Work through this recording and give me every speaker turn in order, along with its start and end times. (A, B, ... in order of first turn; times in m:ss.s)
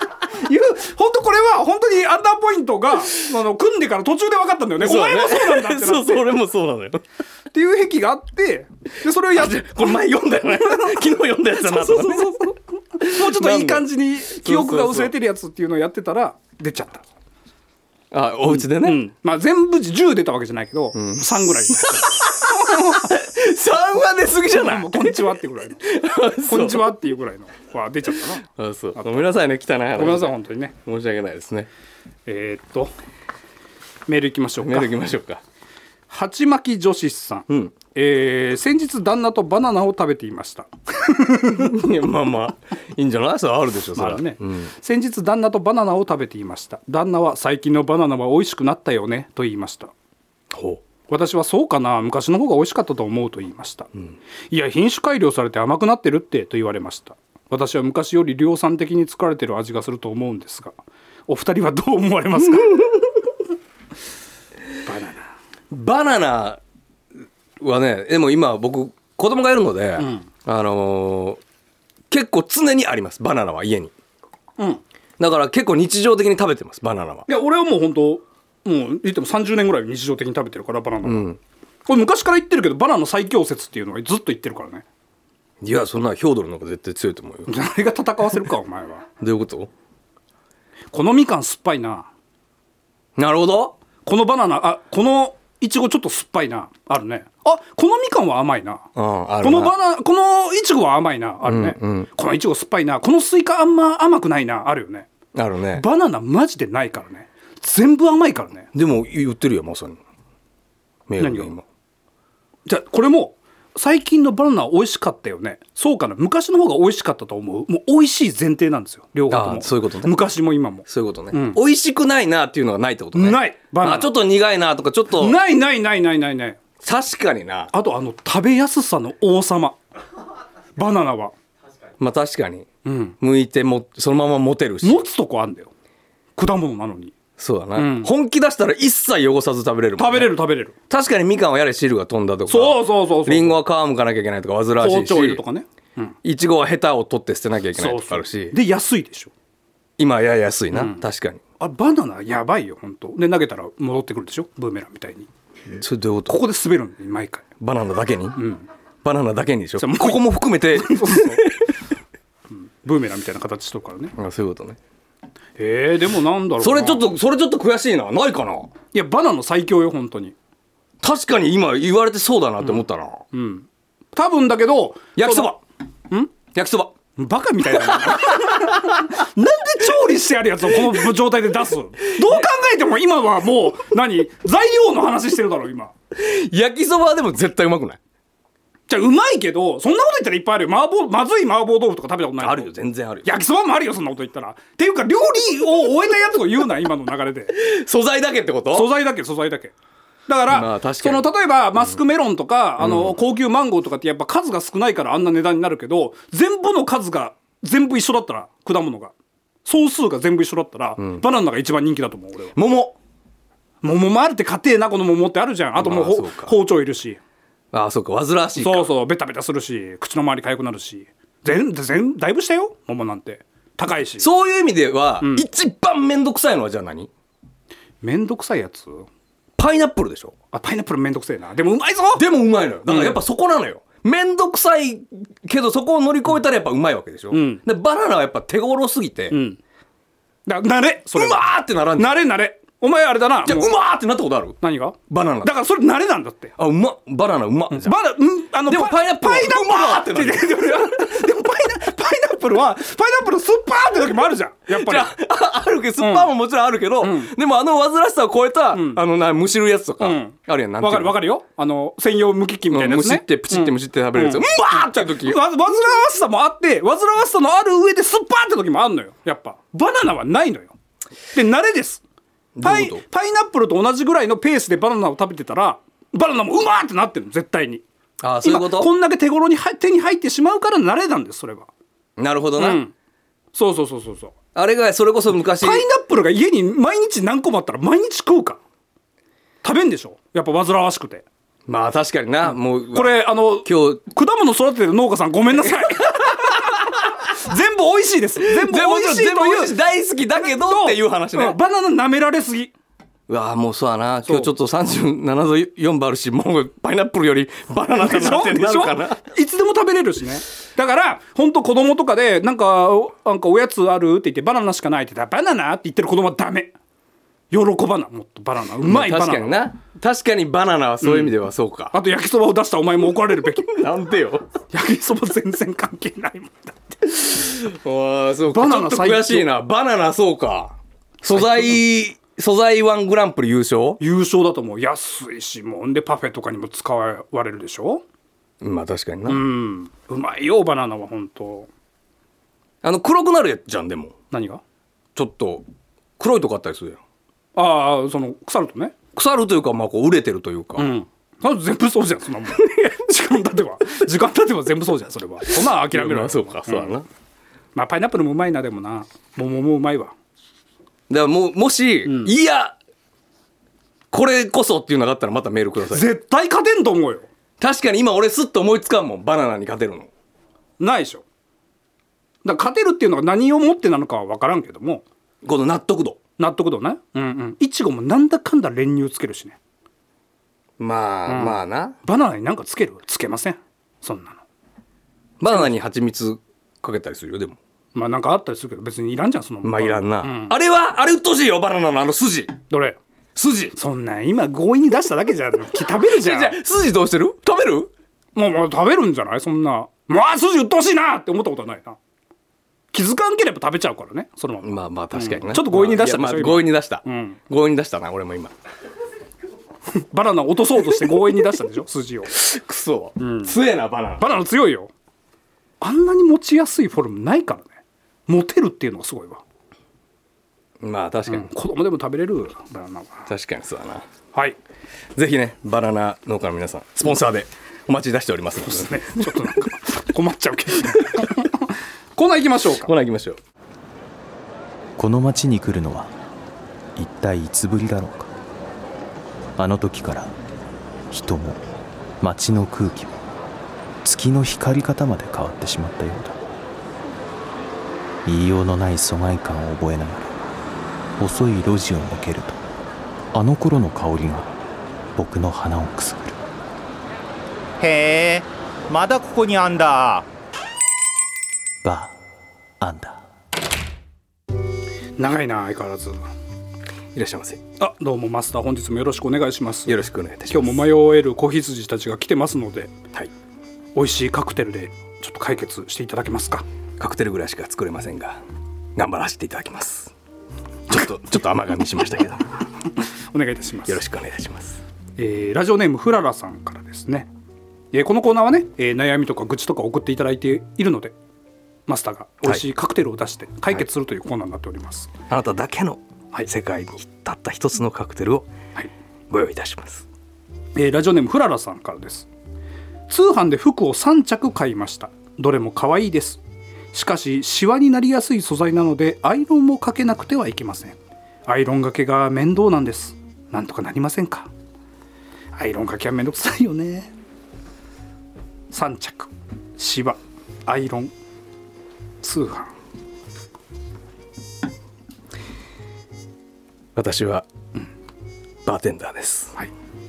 0:00.3-0:06.3 A
0:04.8-0:07.0 B
0:07.5-0:11.0 A
0:09.3-0:15.1 B
0:11.6-0:17.1 A
0:18.1-0:19.0 B
0:18.5-0:23.1 A
0:21.0-0:27.0 B
0:24.5-0:25.9 A
0:26.4-0:28.5 A
0:28.4-0:31.7 B
0:29.0-0:29.3 A
0:30.0-0:30.8 A
0:32.3-0:32.9 A
0:34.1-0:34.9 A
0:34.6-0:35.4 B
0:36.1-0:41.8 A
0:37.5-0:37.7 B
0:41.5-0:44.7 B
0:44.0-0:49.9 A
0:50.5-0:50.8 B
0:51.1-0:53.9 A
0:54.5-1:00.8 A
1:01.3-1:03.0 A
1:04.8-1:05.2 A
1:05.7-1:06.6 B
1:07.6-1:11.4 B
1:10.0-1:10.3 A
1:12.1-1:13.9 B
1:15.2-1:17.3 B
1:17.3-1:21.3 A
1:21.0-1:21.4 B
1:21.9-1:24.8 A
1:25.6-1:27.5 B
1:27.5-1:29.1 A
1:29.2-1:29.7 B
1:30.9-1:32.1 A
1:33.2-1:33.8 B
1:34.0-1:38.9 A
1:39.0-1:39.8 B
1:39.4-1:45.1 A
1:41.4-1:42.1 B
1:45.3-1:45.8 B
1:45.7-1:48.7 A
1:48.7-1:50.0 B
1:51.1-1:51.6 B
1:51.2-1:51.5 A
1:52.7-2:01.6 A
1:59.3-2:00.2 B
2:00.9-2:05.4 B
2:03.2-2:04.2 A
2:05.2-2:06.6 A
2:06.8-2:07.7 B
2:07.7-2:09.8 A
2:10.8-2:11.3 A
2:12.0-2:12.7 B
2:12.8-2:13.2 A
2:13.2-2:15.0 B
2:14.8-2:15.7 A
2:16.4-2:17.2 A
2:17.4-2:20.4 B
2:17.8-2:18.1 A
2:20.0-2:20.8 A
2:20.9-2:25.4 B
2:22.5-2:23.6 A
2:24.8-2:26.2 A
2:26.2-2:28.6 B
2:27.8-2:29.3 A
2:30.0-2:31.4 B
2:30.7-2:31.0 A
2:31.6-2:35.3 A
2:35.7-2:36.4 B
2:36.3-2:37.5 A
2:37.6-2:38.5 B
2:38.4-2:38.7 A
2:39.0-2:41.7 B
2:39.8-2:41.5 A
2:42.5-2:44.2 A
2:44.2-2:44.8 B
2:45.6-2:47.1 A
2:46.6-2:48.7 B
2:48.9-2:50.4 A
2:51.0-2:53.3 B
2:53.3-2:55.6 A
2:55.2-2:55.6 B
2:56.5-2:56.9 B
2:57.2-3:05.9 A
2:57.8-2:58.9 B
3:06.1-3:08.0 B
3:08.9-3:12.7 A
3:12.4-3:13.3 B
3:13.2-3:17.6 A
3:17.6-3:18.9 B
3:18.7-3:19.7 A
3:20.3-3:29.1 A
3:20.5-3:21.3 B
3:22.8-3:23.2 B
3:29.6-3:32.6 A
3:31.0-3:31.2 B
3:32.6-3:33.0 B
3:33.8-3:37.2 A
3:35.8-3:36.6 B
3:37.7-3:38.9 B
3:38.6-3:44.3 A
3:44.2-3:47.1 B
3:45.2-3:45.5 A
3:48.0-3:49.1 A
3:49.6-3:50.4 B
3:50.5-3:52.3 A
3:52.2-3:59.4 B
3:52.8-3:53.2 A
3:57.3-3:57.6 A
3:59.3-3:59.6 A
4:00.5-4:01.4 A
4:01.1-4:02.2 B
4:02.0-4:03.7 A
4:03.4-4:04.6 B
4:04.6-4:06.5 A
4:05.1-4:05.5 B
4:06.6-4:08.0 B
4:07.7-4:15.1 A
4:08.7-4:11.0 B
4:14.7-4:21.2 B
4:16.0-4:16.3 A
4:17.0-4:17.3 A
4:18.7-4:19.0 A
4:20.0-4:30.7 A
4:22.7-4:25.4 B
4:31.3-4:32.0 A
4:32.6-4:33.0 B
4:32.6-4:37.8 A
4:38.2-4:38.9 B
4:38.4-4:41.7 A
4:42.2-4:42.8 B
4:42.6-4:42.9 A
4:43.5-4:44.3 A
4:44.6-4:45.8 B
4:45.6-4:48.6 A
4:49.6-4:51.2 A
4:51.7-4:54.0 B
4:52.9-4:59.8 A
4:58.4-5:01.6 B
5:00.3-5:02.7 A
5:03.3-5:09.2 B
5:04.2-5:04.5 A
5:08.0-5:16.7 A
5:17.5-5:19.6 A
5:18.8-5:22.0 B
5:21.0-5:21.4 A
5:21.9-5:23.8 A
5:23.4-5:24.5 B
5:24.7-5:27.6 A
5:27.3-5:34.0 B
5:28.5-5:29.5 A
5:31.3-5:31.8 A
5:34.0-5:38.0 A
5:38.6-5:39.4 B
5:39.3-5:41.7 A
5:42.8-5:44.1 B
5:44.3-5:44.6 A
5:45.2-5:45.6 B
5:46.2-5:47.0 B
5:47.6-5:49.0 A
5:49.1-5:50.9 B
5:50.8-5:57.0 A
5:52.6-5:52.9 B
5:55.5-5:57.1 B
5:57.8-6:00.2 A
6:01.1-6:02.8 B
6:02.1-6:02.3 A
6:04.1-6:06.1 B
6:05.9-6:07.3 A
6:07.6-6:10.1 B
6:10.8-6:11.2 A
6:12.4-6:15.0 A
6:15.4-6:16.2 B
6:16.4-6:19.6 A
6:20.8-6:22.0 B
6:21.3-6:24.4 A
6:25.4-6:27.6 B
6:27.9-6:30.5 A
6:29.6-6:32.6 B
6:32.7-6:33.0 A
6:33.4-6:33.8 B
6:33.8-6:36.6 A
6:36.0-6:37.9 B
6:38.4-6:42.0 A
6:42.9-6:47.4 A
6:44.6-6:48.5 B
6:49.9-6:52.3 A
6:52.3-6:54.3 B
6:53.2-6:53.6 A
6:54.2-6:54.9 A
6:55.8-6:57.7 A
6:58.3-6:59.4 A
7:00.8-7:01.5 B
7:01.3-7:03.3 A
7:03.3-7:04.0 B
7:05.2-7:09.5 B
7:08.6-7:12.9 A
7:10.9-7:11.3 B
7:12.8-7:13.4 B
7:15.0-7:16.1 C
7:17.0-7:18.3 C
7:19.6-7:20.3 C
7:21.1-7:21.6 C
7:22.2-7:23.2 C
7:24.0-7:26.4 C
7:28.3-7:30.3 C
7:31.2-7:32.6 C
7:33.3-7:34.5 C
7:35.2-7:36.4 C
7:37.8-7:40.3 D
7:41.8-7:42.1 C
7:42.8-7:43.2 C
7:45.2-7:46.2 A
7:47.1-7:47.6 B
7:47.8-7:52.9 A
7:49.9-7:50.9 B
7:54.0-7:56.6 A
7:57.0-7:58.4 B
7:59.0-8:00.1 B
8:00.9-8:02.5 B
8:03.3-8:04.0 A
8:03.9-8:04.8 B
8:05.2-8:07.3 A
8:07.9-8:11.1 A
8:11.9-8:15.1 A
8:15.3-8:18.5 B
8:19.3-8:20.1 B
8:20.8-8:22.3 A
8:23.1-8:26.4 A
8:26.9-8:34.5 A
8:35.6-8:37.1 A
8:38.7-8:41.1 A
8:42.2-8:42.7 A
8:47.0-8:47.5 B
8:48.6-8:49.6 B